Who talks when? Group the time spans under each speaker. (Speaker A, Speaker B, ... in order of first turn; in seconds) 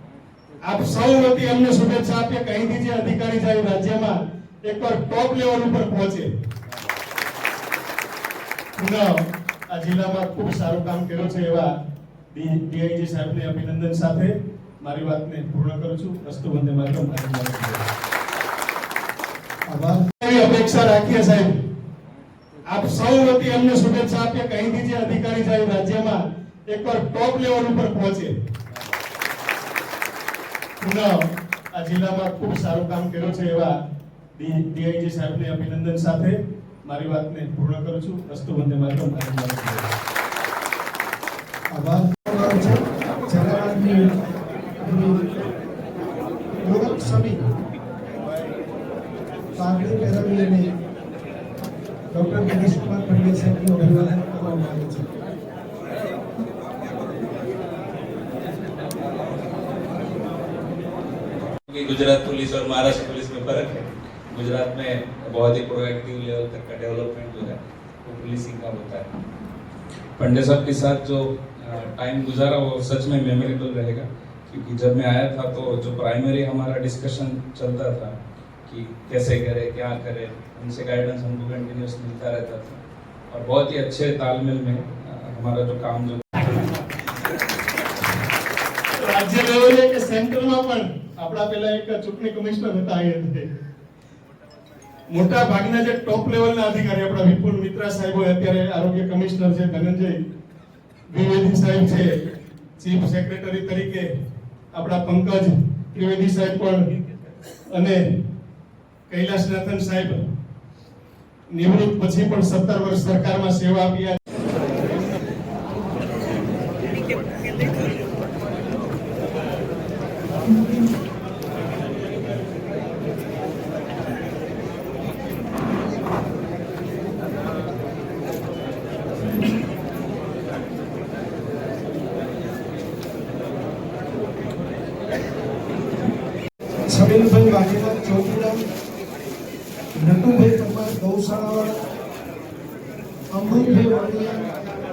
Speaker A: 0.6-6.3, 8.8-9.2, 9.7-11.7, 12.3-17.8, 20.2-21.6, 22.6-28.4, 30.8-31.2, 31.7-33.7, 34.4-39.9, 89.0-93.5, 95.1-100.2, 101.1-102.2, 102.8-104.1, 104.7-106.9, 107.7-108.1, 109.1-110.2, 111.5-114.2
Speaker B: 19.7-20.1, 41.7-44.1, 44.8-45.3, 46.6-47.5, 49.5-50.7, 52.1-55.1, 136.9-138.7, 140.0-141.8, 143.3-144.5
Speaker C: 61.7-69.1, 70.2-78.1, 78.7-86.8